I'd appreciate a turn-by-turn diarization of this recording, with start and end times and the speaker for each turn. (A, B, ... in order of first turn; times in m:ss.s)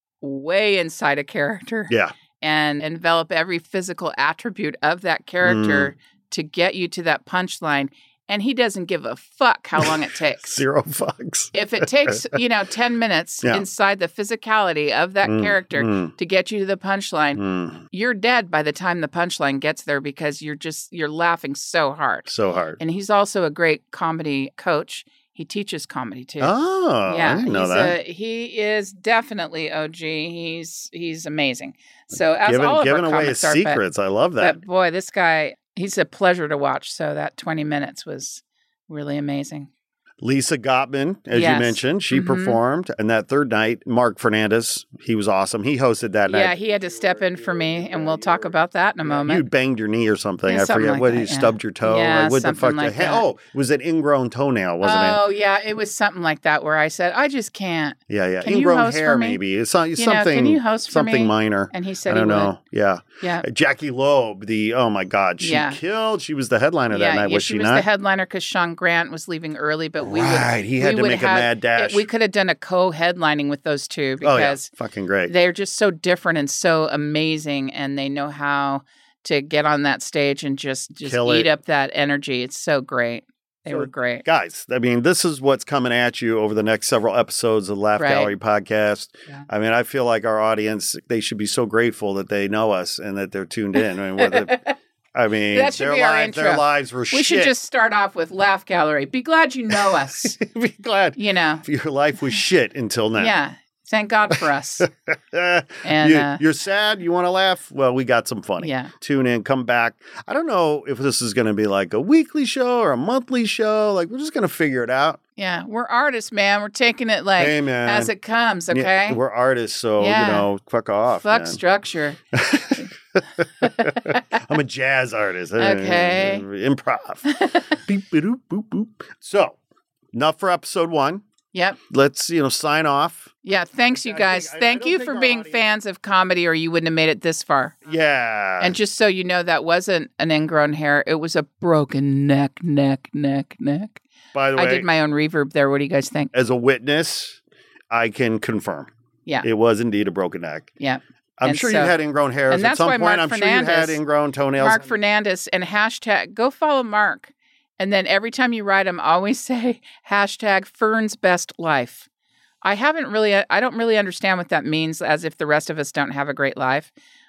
0:00.2-0:10.6 A
0:05.4-0:05.9 B
0:09.8-0:12.4 B
0:11.5-0:22.3 A
0:15.2-0:16.1 B
0:17.4-0:17.8 B
0:22.3-0:22.8 B
0:22.8-0:26.5 A
0:26.4-0:28.0 B
0:27.1-0:33.8 A
0:32.4-0:34.6 B
0:34.4-0:39.7 A
0:40.2-0:55.2 B
0:41.3-0:42.6 A
0:46.3-0:49.4 A
0:50.5-0:53.3 A
0:54.8-0:59.4 A
0:58.1-1:07.9 B
1:00.0-1:02.5 A
1:03.2-1:03.5 A
1:05.4-1:05.8 A
1:06.9-1:14.7 A
1:10.0-1:12.0 B
1:14.2-1:15.3 B
1:15.3-1:24.2 A
1:21.0-1:21.5 B
1:23.7-1:34.6 B
1:28.0-1:28.3 A
1:34.2-1:34.8 A
1:35.1-1:37.5 B
1:35.5-1:40.4 A
1:39.8-1:43.3 B
1:41.2-1:41.6 A
1:43.2-1:44.9 A
1:44.3-1:55.2 B
1:45.8-1:46.4 A
1:48.6-1:48.9 A
1:55.4-1:59.2 A
1:57.4-1:58.1 B
1:58.7-2:01.6 B
2:00.0-2:00.5 A
2:01.2-2:02.2 A
2:02.3-2:09.6 B
2:03.6-2:04.2 A
2:05.6-2:06.4 A
2:07.3-2:07.8 A
2:10.1-2:11.2 B
2:11.5-2:11.8 A
2:11.9-2:13.3 B
2:13.4-2:17.8 A
2:13.9-2:15.6 B
2:17.9-2:18.8 B
2:18.6-2:24.0 A
2:24.3-2:24.9 B
2:24.6-2:26.3 A
2:26.3-2:27.4 B
2:27.9-2:28.9 B
2:29.4-2:30.7 B
2:30.8-2:32.0 A
2:31.4-2:34.9 B
2:32.5-2:34.0 A
2:34.6-2:42.1 A
2:42.6-2:46.9 A